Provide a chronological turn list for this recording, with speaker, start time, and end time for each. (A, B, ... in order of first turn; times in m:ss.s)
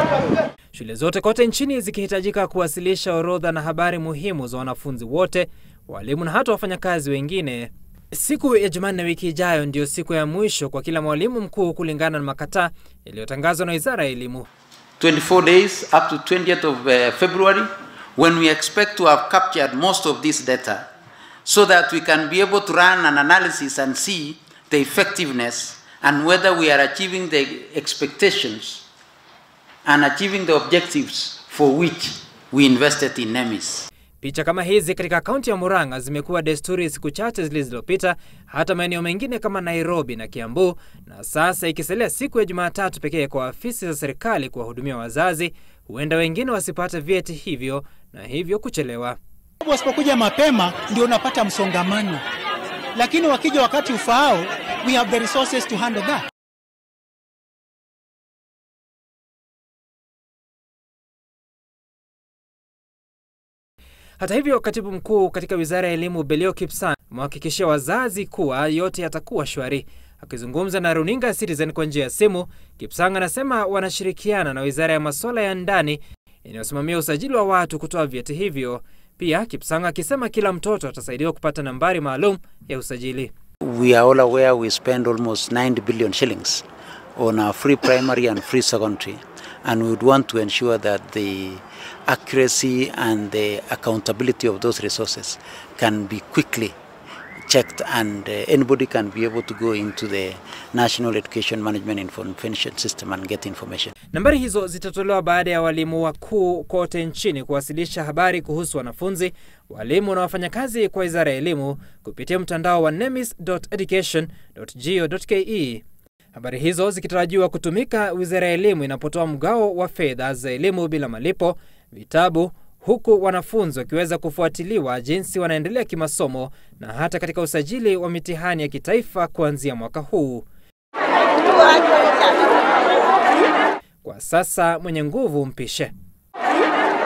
0:00.7-0:14.4 A
0:15.0-0:20.9 B
0:21.4-0:28.8 B
0:29.8-0:33.9 B
0:34.2-0:49.2 A
0:49.6-0:52.2 C
0:52.9-0:56.2 C
1:04.2-1:23.3 A
1:23.6-1:26.6 B
1:27.2-1:36.7 B
1:37.5-1:43.9 B
1:44.1-1:55.8 A
1:56.3-2:10.5 A
2:14.0-2:15.9 A